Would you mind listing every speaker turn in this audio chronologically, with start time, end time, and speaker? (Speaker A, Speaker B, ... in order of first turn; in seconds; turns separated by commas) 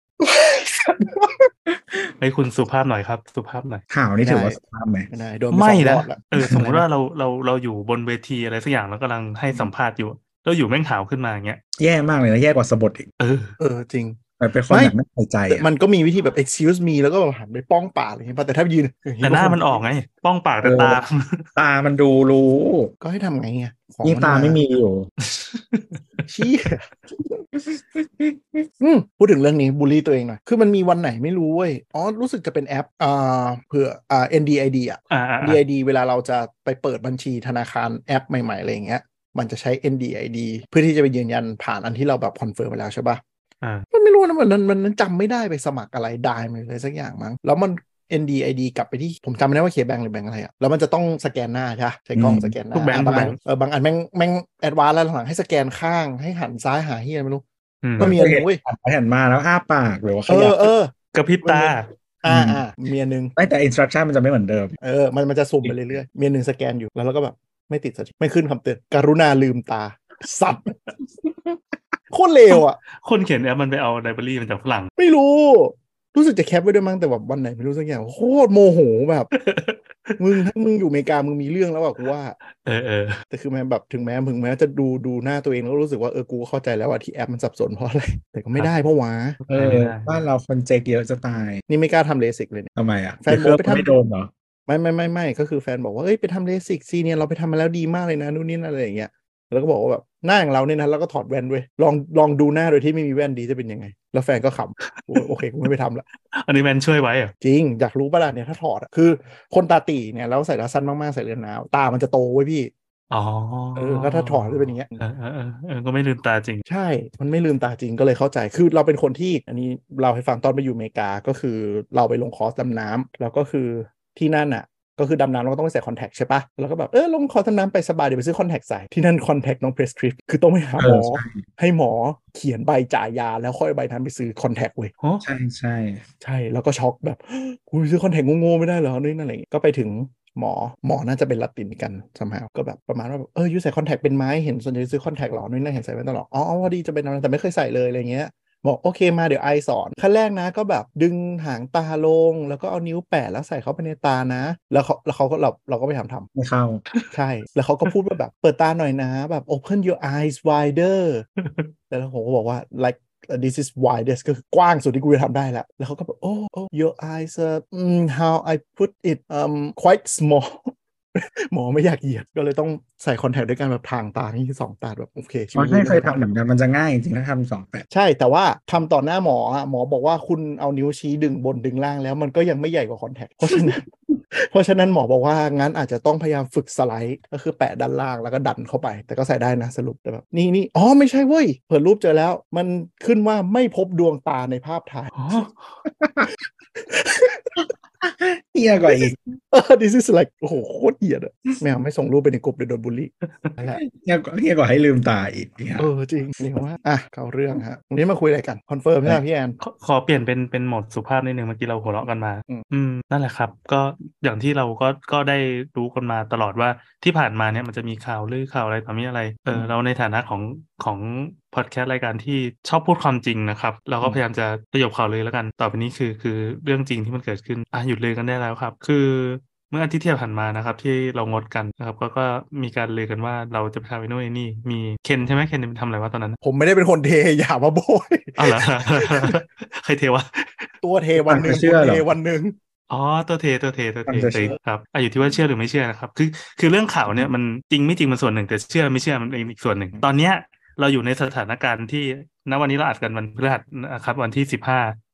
Speaker A: 0.2-1.5, Speaker B: 2.2-3.8, Speaker C: 3.9-5.1, Speaker A: 4.2-4.6, Speaker A: 5.1-6.8, Speaker B: 5.5-11.6, Speaker C: 6.4-6.7, Speaker C: 11.8-13.1, Speaker B: 13.2-13.6, Speaker A: 13.6-14.2, Speaker C: 14.4-15.7, Speaker A: 15.5-19.8, Speaker B: 19.2-21.5, Speaker C: 20.6-21.0, Speaker C: 21.6-22.9, Speaker A: 23.0-24.6, Speaker C: 24.0-25.1, Speaker B: 25.2-26.0, Speaker A: 26.3-27.4, Speaker C: 27.6-28.6, Speaker A: 28.8-43.2, Speaker B: 35.1-35.6, Speaker A: 43.9-57.4, Speaker C: 52.1-52.5, Speaker B: 52.7-53.4, Speaker B: 57.8-58.1, Speaker A: 58.0-58.6, Speaker C: 58.0-60.7, Speaker A: 60.3-60.9, Speaker B: 61.1-61.9, Speaker A: 61.4-63.3, Speaker C: 62.2-62.6, Speaker C: 63.4-64.8, Speaker A: 64.8-70.8, Speaker A: 72.1-72.8, Speaker B: 72.5-74.9, Speaker A: 75.0-79.3, Speaker B: 79.3-80.2, Speaker A: 80.2-82.3, Speaker B: 82.6-83.2, Speaker A: 83.3-89.4, Speaker B: 89.4-90.2, Speaker C: 89.5-91.6, Speaker A: 91.7-92.7, Speaker C: 92.8-94.3, Speaker A: 93.2-93.9, Speaker A: 94.7-106.0, Speaker B: 104.8-105.3, Speaker B: 106.3-107.3, Speaker A: 107.4-112.7, Speaker B: 113.1-116.6, Speaker A: 113.8-114.9, Speaker A: 116.7-134.9, Speaker C: 130.8-131.4, Speaker C: 135.2-136.0, Speaker A: 136.2-156.3, Speaker C: 156.3-156.8, Speaker A: 157.1-161.2, Speaker B: 161.4-161.7, Speaker A: 161.9-176.3, Speaker C: 175.5-177.8, Speaker A: 177.9-195.1, Speaker B: 195.1-195.8, Speaker C: 196.0-196.3, Speaker A: 196.8-197.6, Speaker C: 197.6-199.2, Speaker A: 199.5-203.8, Speaker B: 203.2-203.5, Speaker C: 203.8-205.9, Speaker A: 205.8-209.6, Speaker B: 209.6-236.4, Speaker A: 236.4-239.3, Speaker B: 238.4-240.7, Speaker A: 240.8-242.6, Speaker C: 241.2-242.1, Speaker B: 242.9-255.0, Speaker C: 244.1-244.5